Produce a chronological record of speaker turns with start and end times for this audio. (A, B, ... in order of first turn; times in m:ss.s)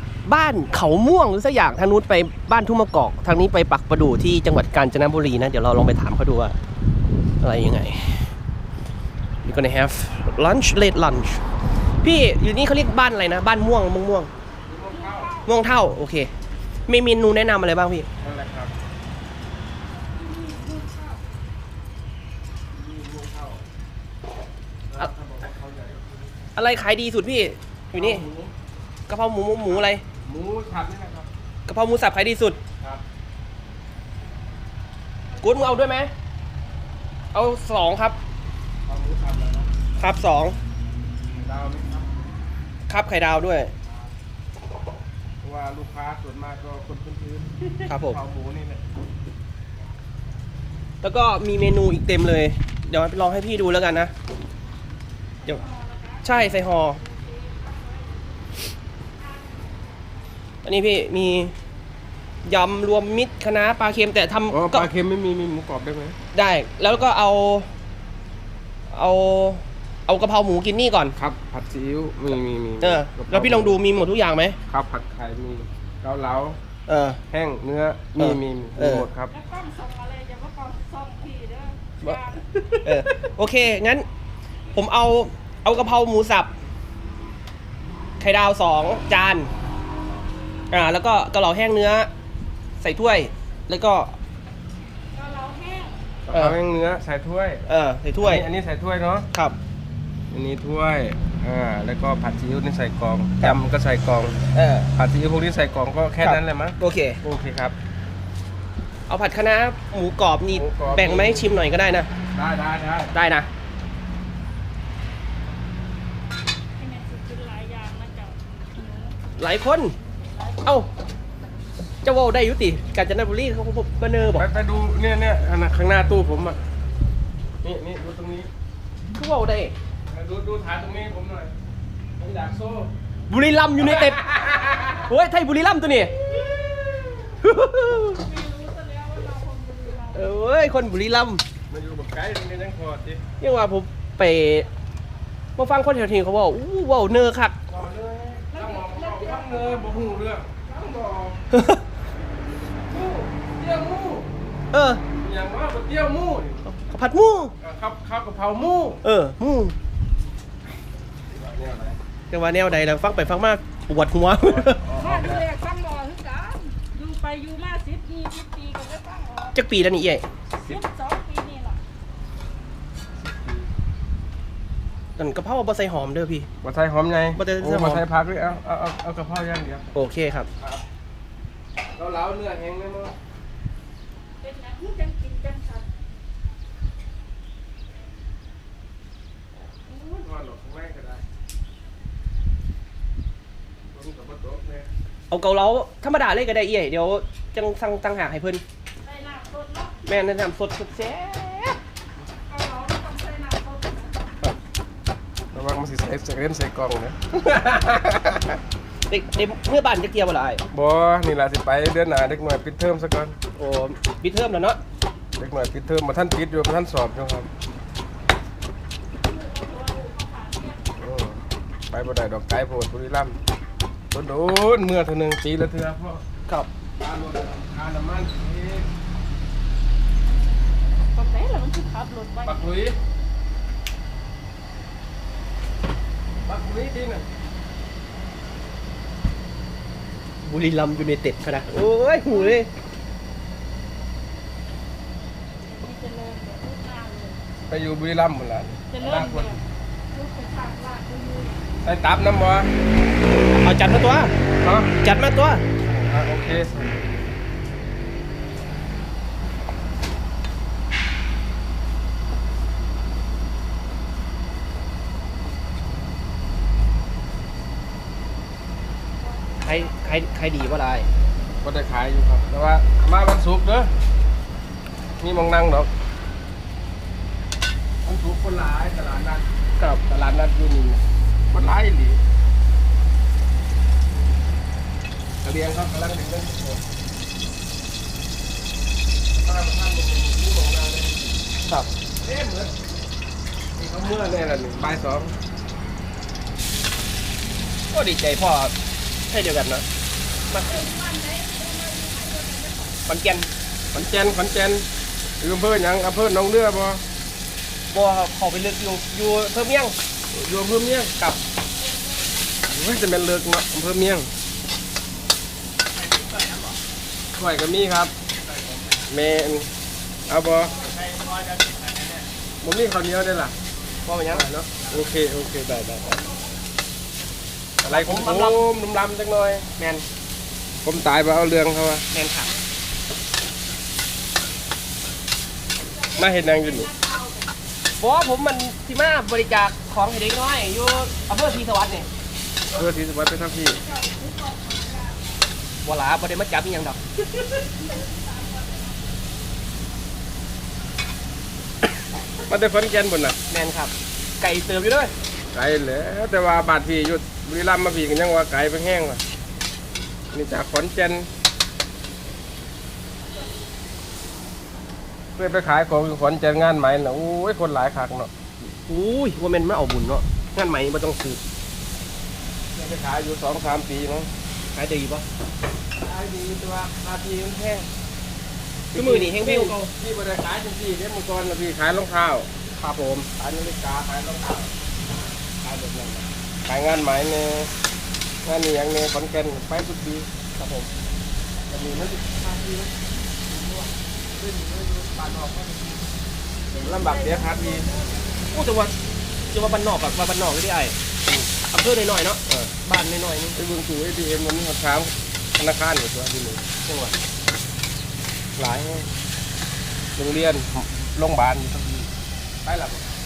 0:00.3-0:06.6 A
0:07.4-0:08.3 A
0:09.4-0:11.4 A
0:12.0-0:14.3 A
0:14.6-0:15.3 B
0:14.9-0:15.5 C
0:15.5-0:16.3 A
0:16.9-0:18.1 A
0:18.2-0:18.7 B
0:20.1-0:21.3 C
0:22.7-0:23.6 B
0:24.9-0:26.3 B
0:26.6-0:28.3 A
0:27.9-0:28.5 B
0:29.1-0:30.0 A
0:29.7-0:31.3 B
0:31.7-0:32.6 A
0:35.4-0:36.1 A
0:37.3-0:38.2 A
0:38.9-0:39.7 B
0:40.0-0:40.6 A
0:41.4-0:42.1 B
0:42.9-0:43.7 A
0:43.8-0:44.1 B
0:45.4-0:48.8 B
0:47.9-0:48.2 A
0:51.0-0:54.1 A
0:55.4-0:58.6 C
0:56.2-0:57.0 A
0:59.2-1:00.1 C
1:00.6-1:01.6 A
1:02.4-1:04.9 A
1:04.5-1:06.2 B
1:06.3-1:07.7 A
1:08.9-1:11.2 A
1:11.2-1:13.8 B
1:12.8-1:14.6 A
1:14.7-1:16.6 B
1:16.9-1:17.2 A
1:17.3-1:19.3 B
1:18.2-1:19.1 A
1:19.3-1:22.4 C
1:22.0-1:22.6 B
1:22.8-1:24.1 A
1:24.7-1:26.5 A
1:28.2-1:29.5 A
1:30.7-1:32.1 A
1:32.8-1:34.2 A
1:35.1-1:36.0 C
1:36.3-1:36.6 A
1:36.3-1:37.6 B
1:37.7-1:38.5 A
1:38.2-1:39.3 B
1:39.3-1:39.6 A
1:40.3-1:44.4 B
1:44.5-1:44.9 A
1:45.0-1:47.8 B
1:46.2-1:47.2 A
1:49.1-1:52.1 A
1:50.5-1:51.5 B
1:52.3-1:53.1 B
1:53.1-1:53.5 A
1:56.8-1:59.2 C
1:59.4-2:00.0 A
2:00.3-2:00.6 C
2:00.6-2:00.9 A
2:02.0-2:04.5 A
2:04.4-2:06.6 B
2:07.6-2:08.5 B
2:09.2-2:09.7 A
2:10.1-2:11.5 B
2:12.2-2:12.9 B
2:13.3-2:16.1 A
2:13.8-2:14.8 B
2:17.1-2:18.2 A
2:18.1-2:20.4 C
2:20.1-2:21.4 A
2:21.7-2:23.2 B
2:23.4-2:24.7 A
2:25.6-2:27.6 A
2:27.7-2:31.4 B
2:28.5-2:30.2 C
2:31.5-2:31.8 A
2:32.9-2:34.3 B
2:34.7-2:35.0 A
2:35.1-2:36.7 B
2:36.7-2:37.5 A
2:37.6-2:39.0 B
2:39.0-2:39.8 A
2:41.3-2:42.0 B
2:42.3-2:44.9 A
2:44.4-2:45.5 B
2:45.0-2:49.6 C
2:49.5-2:50.2 A
2:50.6-2:51.8 C
2:53.2-2:53.7 B
2:55.2-2:56.5 A
2:56.6-2:59.9 B
2:57.4-2:58.0 A
3:00.0-3:00.5 A
3:02.0-3:03.1 B
3:04.4-3:05.9 C
3:09.9-3:11.2 B
3:13.9-3:14.9 B
3:15.3-3:18.6 A
3:19.0-3:20.0 C
3:20.0-3:21.8 A
3:22.5-3:24.3 C
3:25.5-3:28.6 B
3:29.1-3:30.6 A
3:30.7-3:33.4 B
3:33.6-3:34.8 A
3:35.4-3:37.5 B
3:39.2-3:40.8 C
3:41.0-3:43.4 B
3:44.1-3:46.2 B
3:47.0-3:48.9 B
3:51.1-3:52.7 C
3:52.4-3:53.0 B
3:56.4-3:57.3 B
4:00.4-4:02.7 A
4:02.3-4:02.6 C
4:05.6-4:07.4 C
4:07.7-4:09.6 B
4:08.9-4:09.6 C
4:10.1-4:11.6 C
4:11.8-4:12.7 B
4:13.5-4:14.4 A
4:14.6-4:15.0 B
4:15.0-4:15.7 A
4:15.8-4:17.2 B
4:29.3-4:30.0 C
4:29.6-4:31.1 A
4:31.6-4:33.9 B
4:35.2-4:35.9 B
4:38.0-4:39.5 B
4:40.0-4:42.2 B
4:45.4-4:46.8 B
4:49.4-4:51.2 B
4:52.2-4:52.7 B
4:53.8-4:55.4 B
4:57.9-4:58.7 A
4:59.3-4:59.8 A
5:00.5-5:00.9 A
5:00.6-5:03.0 C
5:03.1-5:03.5 A
5:03.9-5:04.9 B
5:05.4-5:07.0 B
5:07.9-5:10.0 A
5:10.3-5:11.4 B
5:11.8-5:12.5 C
5:12.7-5:14.3 B
5:17.4-5:18.1 B
5:19.1-5:19.7 B
5:20.3-5:20.9 B
5:22.6-5:23.6 B
5:24.1-5:24.6 A
5:24.3-5:26.2 B
5:27.8-5:29.7 B
5:27.8-5:28.6 A
5:29.8-5:30.0 A
5:30.8-5:32.0 B
5:32.1-5:32.5 A
5:35.9-5:37.6 C
5:36.2-5:36.9 B
5:38.0-5:42.1 A
5:42.7-5:43.8 B
5:43.8-5:45.4 C
5:45.8-5:47.0 A
5:47.7-5:49.2 C
5:52.5-5:53.4 B
5:53.5-5:55.1 A
5:55.5-5:59.2 B
6:00.3-6:01.3 B
6:05.4-6:08.3 B
6:08.6-6:11.4 A
6:12.7-6:14.3 B
6:14.7-6:15.2 A
6:16.0-6:17.9 B
6:18.9-6:22.5 B
6:18.9-6:19.9 A
6:22.8-6:23.3 A
6:23.3-6:24.7 B
6:25.6-6:27.7 B
6:28.4-6:30.3 B
6:30.6-6:30.9 A
6:31.7-6:32.9 B
6:34.4-6:35.8 B
6:36.7-6:38.3 C
6:36.7-6:37.9 B
6:38.5-6:38.9 A
6:39.5-6:41.0 A
6:41.6-6:43.6 A
6:43.6-6:46.6 B
6:46.8-6:47.2 A
6:48.6-6:49.1 B
6:50.2-6:52.1 B
6:52.6-6:53.1 B